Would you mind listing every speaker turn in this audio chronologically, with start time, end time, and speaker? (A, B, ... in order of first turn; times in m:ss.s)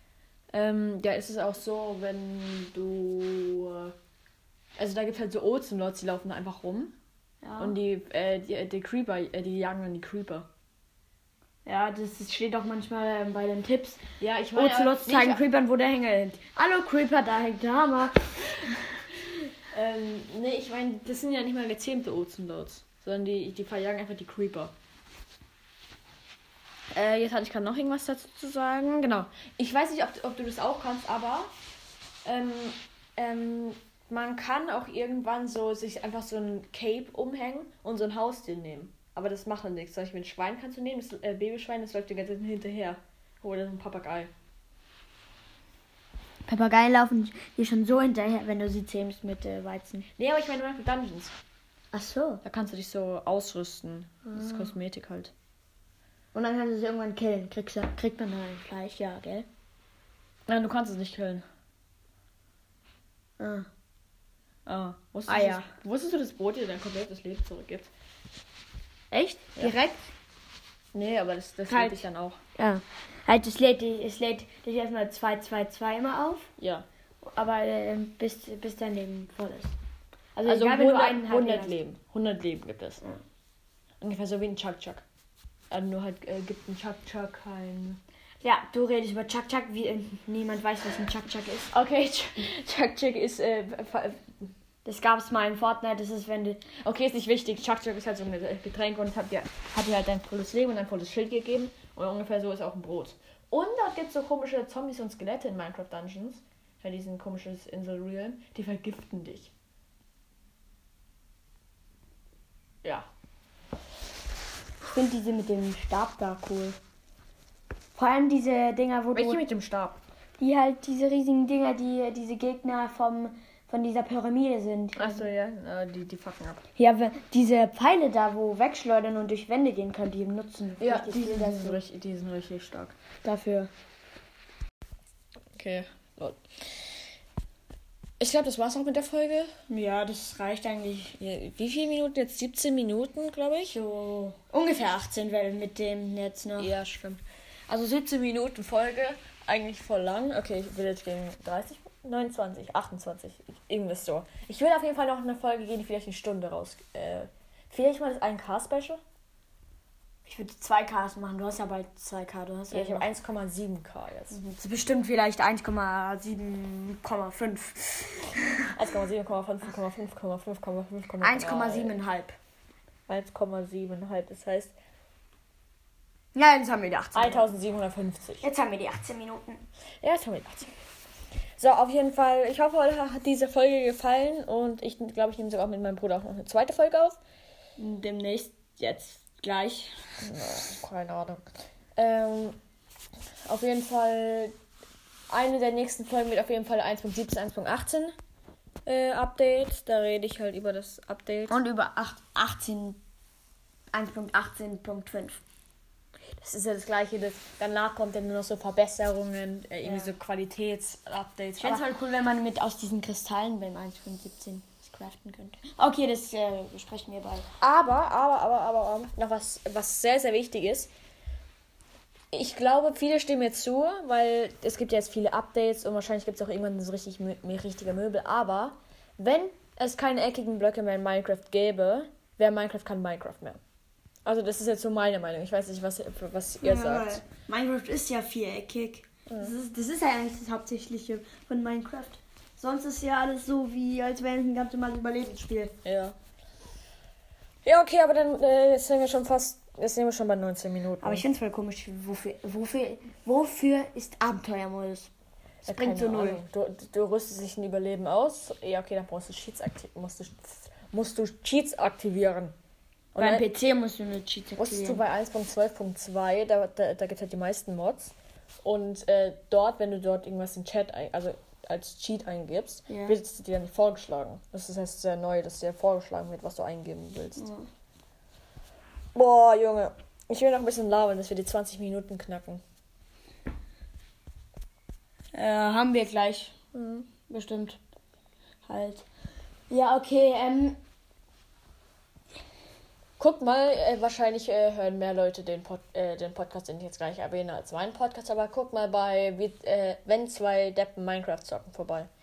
0:00.5-0:04.0 A
0:04.8-0:07.0 A
0:07.4-0:07.8 B
0:07.6-0:10.5 A
0:11.6-0:14.0 B
0:14.2-0:15.4 A
0:14.6-0:18.5 B
0:19.7-0:24.7 A
0:26.9-0:31.5 A
0:32.2-0:44.3 A
0:46.5-0:50.1 B
0:50.2-0:51.4 A
0:51.9-0:52.4 B
0:52.4-0:55.3 A
0:54.3-0:54.7 B
0:56.3-0:59.5 B
1:00.5-1:01.5 A
1:03.4-1:03.7 B
1:04.7-1:07.9 A
1:05.3-1:05.7 B
1:09.1-1:10.1 B
1:09.3-1:09.8 A
1:10.9-1:12.4 A
1:11.7-1:16.5 B
1:16.6-1:16.8 A
1:17.2-1:19.8 B
1:20.4-1:21.8 B
1:20.5-1:23.0 A
1:24.0-1:25.0 A
1:25.7-1:28.0 A
1:28.4-1:31.7 B
1:31.7-1:34.3 A
1:34.8-1:36.7 B
1:36.7-1:49.5 A
1:54.9-1:56.8 B
1:58.0-1:59.4 B
1:59.1-2:00.0 A
2:00.4-2:05.3 B
2:05.0-2:06.6 A
2:06.8-2:11.8 B
2:10.8-2:13.0 A
2:13.2-2:13.7 B
2:15.5-2:16.4 A
2:18.2-2:19.5 A
2:19.7-2:21.2 B
2:21.2-2:23.8 A
2:23.6-2:26.8 B
2:26.6-2:39.0 A
2:40.2-2:43.1 B
2:42.7-2:44.4 A
2:44.3-2:48.7 B
2:48.7-2:51.9 A
2:51.2-2:52.4 B
2:53.1-2:54.7 A
2:56.3-2:57.5 B
2:57.1-2:58.4 A
2:58.4-2:59.6 B
3:00.0-3:00.7 A
3:01.6-3:07.2 A
3:07.8-3:10.2 B
3:10.2-3:11.4 A
3:12.0-3:12.6 A
3:13.4-3:14.5 A
3:15.3-3:18.2 A
3:18.9-3:21.5 A
3:21.5-3:23.0 B
3:23.9-3:25.4 B
3:26.4-3:31.9 A
3:29.8-3:30.1 B
3:31.6-3:37.5 B
3:37.6-3:40.9 A
3:42.3-3:53.6 A
3:54.2-3:57.2 A
3:56.6-4:05.8 B
4:05.8-4:06.2 A
4:07.6-4:11.3 A
4:11.0-4:15.1 B
4:15.6-4:22.6 A
4:15.6-4:16.4 B
4:23.2-4:23.4 A
4:23.2-4:25.0 B
4:24.6-4:37.5 A
4:32.9-4:33.2 B
4:37.4-4:37.7 B
4:39.2-4:42.6 A
4:45.3-4:46.6 B
4:46.7-4:47.1 A
4:47.2-4:47.8 B
4:48.6-4:49.1 B
4:49.7-4:50.8 B
4:53.2-5:02.1 A